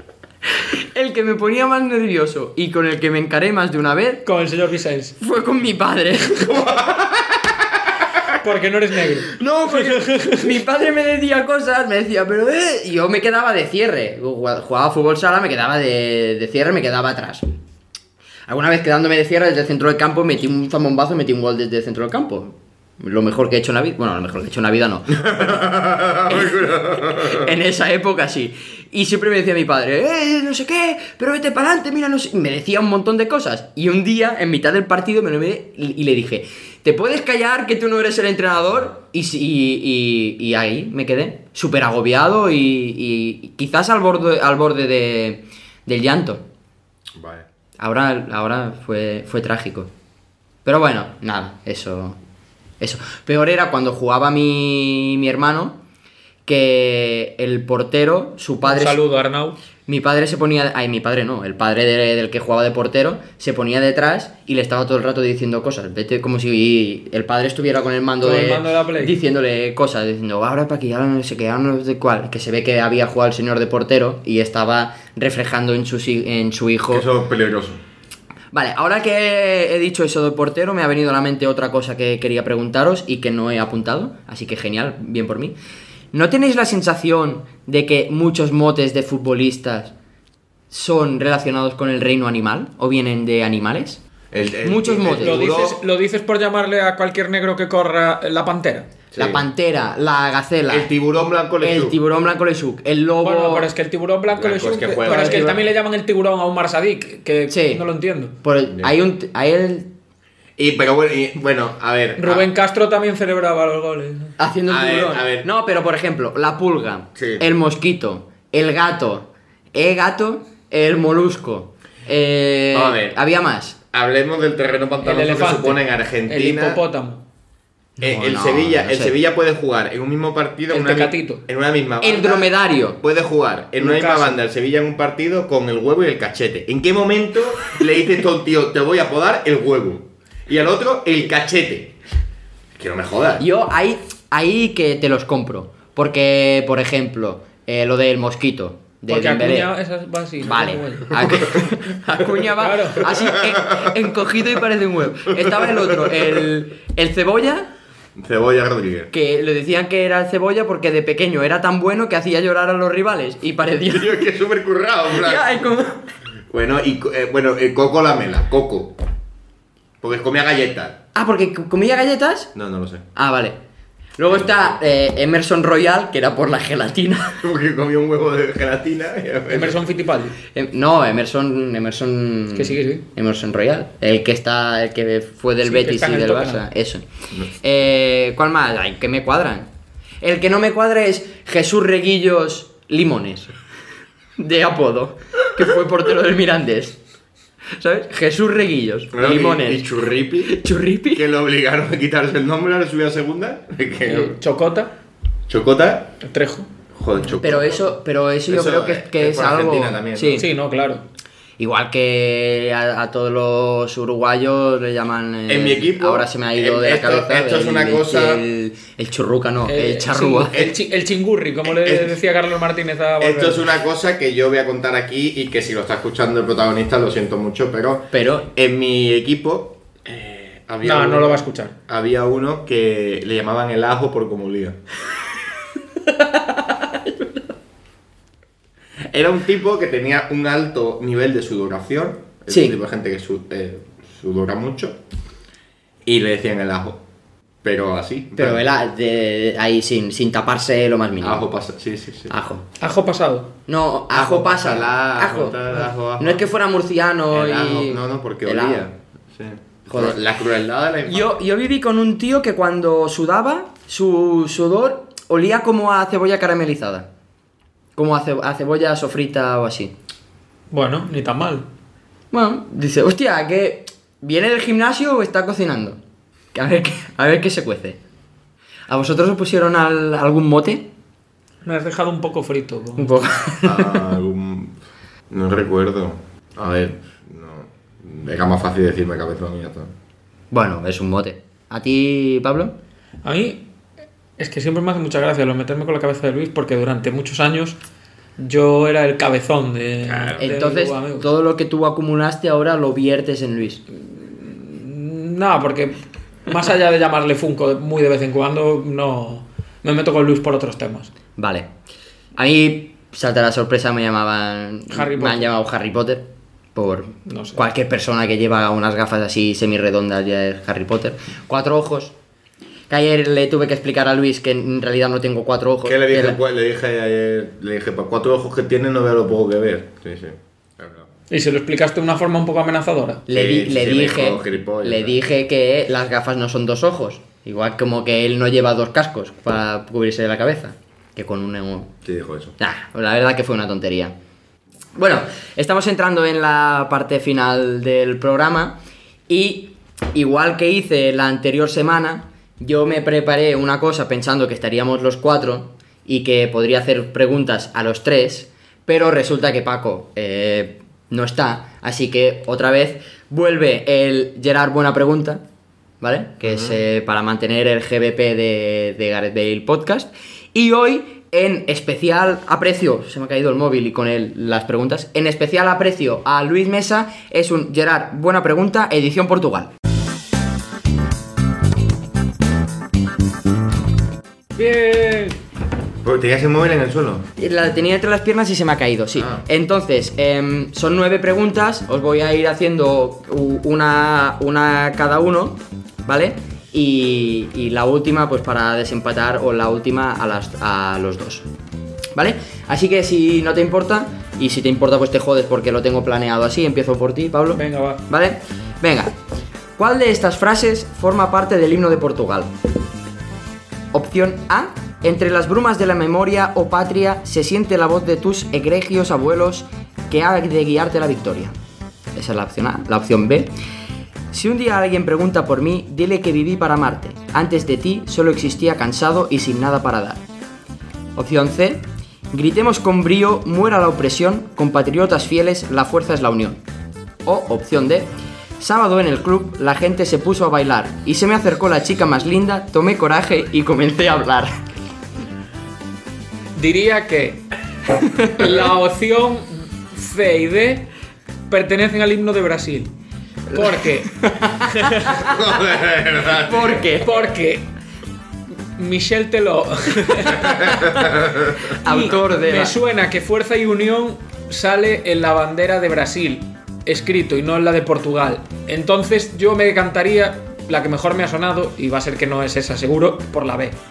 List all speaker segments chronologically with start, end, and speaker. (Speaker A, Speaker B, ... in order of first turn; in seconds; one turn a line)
Speaker A: 0.9-4.2
Speaker B: 4.3-5.2
Speaker A: 5.2-6.8
Speaker C: 6.5-7.8
Speaker B: 8.4-10.5
Speaker A: 9.3-17.5
Speaker A: 18.5-25.7
Speaker C: 25.2-27.5
Speaker A: 26.2-46.4
Speaker C: 47.1-47.5
Speaker A: 47.8-49.9
Speaker A: 50.6-52.2
Speaker A: 52.8-55.8
Speaker A: 56.5-59.0
Speaker B: 58.6-59.6
Speaker A: 59.9-77.1
Speaker B: 68.2-69.2
Speaker C: 76.9-77.8
Speaker A: 78.5-85.5
Speaker A: 86.1-89.9
Speaker A: 90.7-94.0
Speaker C: 94.3-95.8
Speaker A: 94.6-95.4
Speaker B: 95.2-98.9
Speaker C: 99.1-99.4
Speaker A: 99.2-100.9
Speaker C: 100.7-102.0
Speaker A: 101.6-103.7
Speaker B: 103.2-108.3
Speaker C: 104.3-105.6
Speaker A: 105.0-105.6
Speaker A: 107.5-107.8
Speaker A: 108.4-109.9
Speaker C: 110.6-112.5
Speaker B: 112.2-114.3
Speaker A: 114.4-123.8
Speaker C: 114.7-115.5
Speaker C: 117.2-117.5
Speaker C: 122.7-123.2
Speaker C: 123.9-126.8
Speaker B: 125.0-127.2
Speaker A: 128.0-129.1
Speaker C: 128.0-141.9
Speaker B: 130.7-131.4
Speaker A: 132.0-133.0
Speaker B: 133.8-134.4
Speaker C: 142.8-143.5
Speaker A: 143.4-149.7
Speaker B: 149.1-151.7
Speaker A: 150.4-157.7
Speaker B: 152.6-153.3
Speaker C: 153.4-154.0
Speaker C: 155.3-156.4
Speaker C: 158.2-159.1
Speaker A: 159.1-164.2
Speaker C: 163.9-165.7
Speaker A: 165.1-166.1
Speaker C: 166.5-169.0
Speaker C: 170.0-171.0
Speaker A: 171.2-172.5
Speaker C: 172.6-173.1
Speaker A: 173.2-173.6
Speaker A: 174.2-177.4
Speaker C: 174.3-174.8
Speaker C: 177.4-179.8
Speaker B: 179.5-180.4
Speaker A: 180.5-189.7
Speaker B: 182.6-183.0
Speaker B: 185.6-186.6
Speaker A: 190.2-193.5
Speaker A: 194.4-197.0
Speaker A: 197.8-199.9
Speaker C: 199.1-204.4
Speaker A: 200.4-201.2
Speaker B: 204.1-204.9
Speaker C: 205.5-206.2
Speaker B: 206.2-206.7
Speaker C: 206.9-207.9
Speaker A: 207.4-210.5
Speaker C: 208.5-210.5
Speaker B: 210.3-211.0
Speaker A: 211.6-220.6
Speaker C: 215.5-218.4
Speaker B: 219.7-223.6
Speaker C: 221.6-222.2
Speaker C: 223.2-234.8
Speaker A: 228.1-228.5
Speaker B: 230.8-231.7
Speaker A: 236.2-237.4
Speaker C: 239.1-245.0
Speaker A: 242.5-242.8
Speaker C: 246.1-247.0
Speaker C: 247.6-248.7
Speaker A: 248.4-251.4
Speaker C: 251.2-252.3
Speaker A: 252.3-252.6
Speaker B: 252.8-253.5
Speaker A: 253.7-258.9
Speaker C: 254.1-256.5
Speaker C: 257.3-261.3
Speaker A: 259.9-260.2
Speaker A: 261.1-267.1
Speaker A: 268.0-269.9
Speaker B: 270.7-271.7
Speaker A: 272.3-276.0
Speaker A: 276.5-278.0
Speaker A: 278.9-280.9
Speaker B: 281.6-283.2
Speaker A: 283.0-284.0
Speaker C: 283.6-284.8
Speaker C: 285.3-289.9
Speaker A: 290.5-292.8
Speaker B: 293.2-293.7
Speaker B: 294.4-297.8
Speaker B: 298.4-301.3
Speaker C: 300.0-300.5
Speaker A: 300.4-303.8
Speaker B: 304.1-311.1
Speaker A: 311.4-311.7
Speaker A: 312.4-322.1
Speaker B: 314.9-315.5
Speaker B: 317.3-317.6
Speaker A: 322.9-326.4
Speaker C: 325.9-331.1
Speaker B: 331.3-333.2
Speaker A: 333.3-341.9
Speaker C: 333.3-335.2
Speaker C: 342.1-342.6
Speaker A: 342.6-344.1
Speaker A: 345.0-348.8
Speaker A: 349.3-365.4
Speaker A: 366.0-379.7
Speaker C: 366.4-366.8
Speaker B: 384.6-385.4
Speaker C: 386.0-387.3
Speaker A: 387.4-401.5
Speaker C: 389.2-389.4
Speaker A: 402.1-409.1
Speaker B: 407.5-408.0
Speaker A: 409.8-412.5
Speaker A: 413.9-421.5
Speaker A: 422.1-423.5
Speaker A: 424.3-430.2
Speaker A: 431.2-436.6
Speaker A: 437.2-444.6
Speaker B: 446.6-447.4
Speaker A: 448.0-448.6
Speaker B: 448.2-450.9
Speaker B: 451.5-452.9
Speaker B: 453.5-455.3
Speaker A: 453.5-455.4
Speaker C: 455.2-456.9
Speaker A: 456.4-457.1
Speaker B: 457.0-457.7
Speaker B: 458.8-461.1
Speaker A: 460.6-460.9
Speaker C: 460.6-461.6
Speaker B: 461.7-473.8
Speaker A: 461.7-462.8